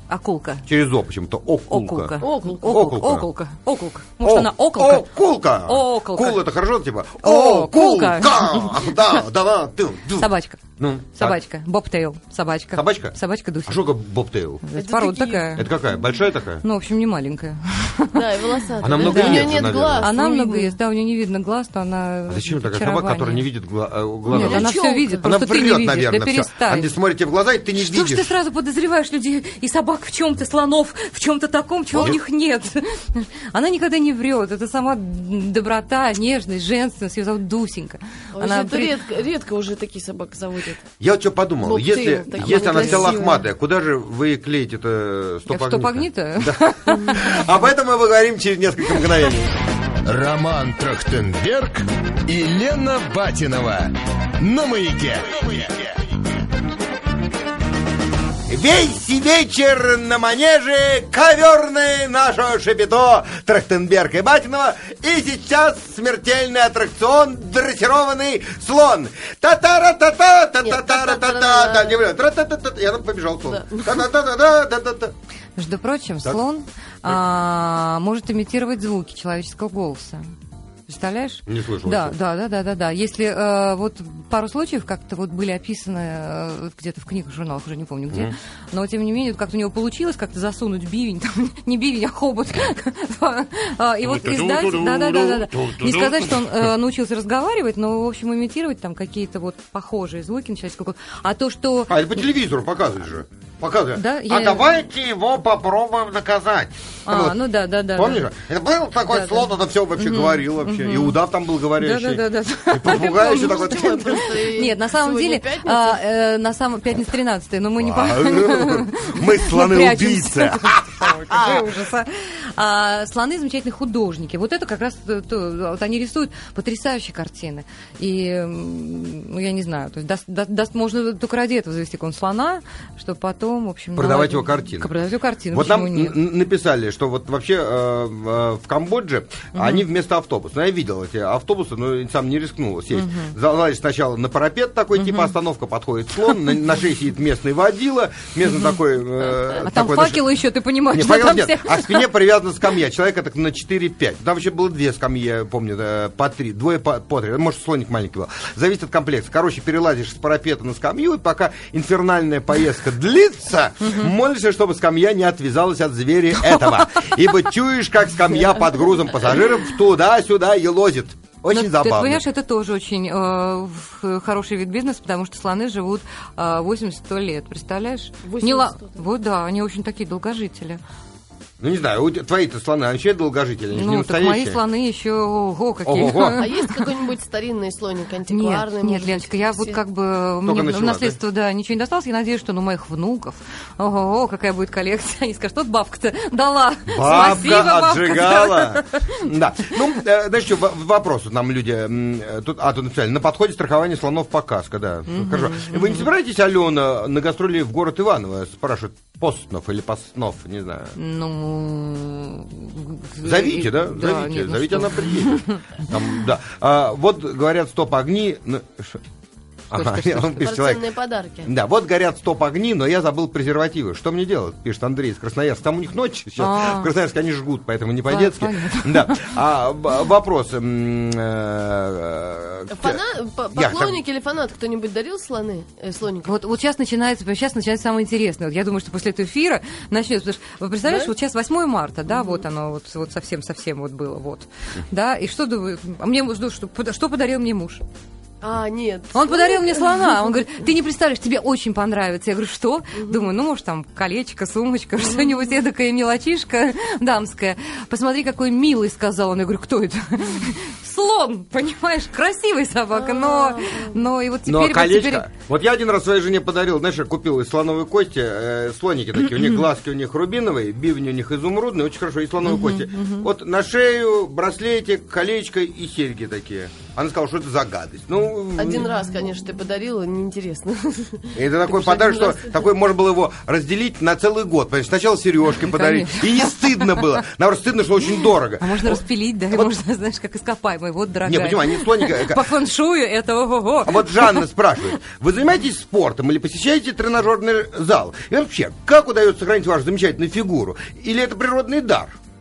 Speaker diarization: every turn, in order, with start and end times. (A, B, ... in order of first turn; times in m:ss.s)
0:00.1-0:00.7 A
0:00.7-0:03.3 B
0:01.7-0:05.1 A
0:02.2-0:02.7 C
0:04.2-0:11.4 B
0:05.7-0:06.4 A
0:07.2-0:09.2 A
0:10.2-0:10.6 A
0:11.2-0:13.8 A
0:12.7-0:14.6 B
0:14.6-0:15.7 A
0:14.8-0:15.6 C
0:15.6-0:16.6 B
0:16.6-0:18.3 A
0:18.1-0:20.8 C
0:18.8-0:20.1 B
0:18.8-0:23.4 A
0:22.3-0:28.3 B
0:24.3-0:25.4 C
0:24.3-0:26.9 A
0:27.8-0:38.9 A
0:31.9-0:32.2 B
0:38.3-0:40.8 C
0:41.0-0:49.6 B
0:41.6-0:43.4 C
0:42.8-0:43.1 A
0:45.5-0:47.2 A
0:46.9-0:47.2 C
0:50.0-0:55.8 D
0:58.5-1:15.1 B
1:10.6-1:12.0 C
1:13.5-1:14.0 C
1:15.6-1:20.3 A
1:20.9-1:42.2 A
1:21.5-1:22.2 B
1:34.1-1:36.3 D
1:41.9-1:47.4 B
1:43.9-1:44.7 A
1:47.1-1:48.3 A
1:48.0-1:54.3 B
1:49.1-1:51.2 A
1:51.8-2:16.2 A
1:52.9-1:56.0 C
1:57.8-2:01.7 B
2:14.0-2:14.9 B
2:15.5-2:30.2 B
2:19.6-2:19.8 A
2:22.9-2:23.3 A
2:25.0-2:25.3 A
2:29.6-2:32.1 A
2:30.9-2:52.2 B
2:43.8-2:44.1 A
2:46.4-2:47.2 A
2:51.5-3:00.8 A
2:58.2-2:59.0 C
3:01.6-3:04.6 B
3:03.7-3:06.9 A
3:05.8-3:06.5 B
3:06.4-3:09.8 C
3:08.3-3:19.8 A
3:10.4-3:11.2 B
3:16.9-3:31.0 B
3:25.1-3:26.1 A
3:31.0-3:35.8 A
3:33.2-3:39.0 B
3:39.7-3:40.8 B
3:39.7-3:40.5 A
3:40.4-3:41.5 C
3:41.4-3:53.0 B
3:46.4-3:46.9 A
3:48.1-3:49.4 A
3:52.7-3:56.3 C
3:53.6-3:54.0 B
3:56.2-4:07.8 A
4:00.8-4:01.1 C
4:02.1-4:02.4 C
4:08.4-4:10.4 C
4:09.1-4:25.3 A
4:13.0-4:13.3 C
4:15.0-4:15.5 C
4:22.9-4:24.0 C
4:24.5-4:38.9 B
4:32.4-4:33.3 A
4:38.6-4:42.6 C
4:41.3-4:49.0 B
4:45.5-4:47.2 A
4:48.0-4:54.4 A
4:51.3-4:52.4 B
4:53.8-5:02.2 B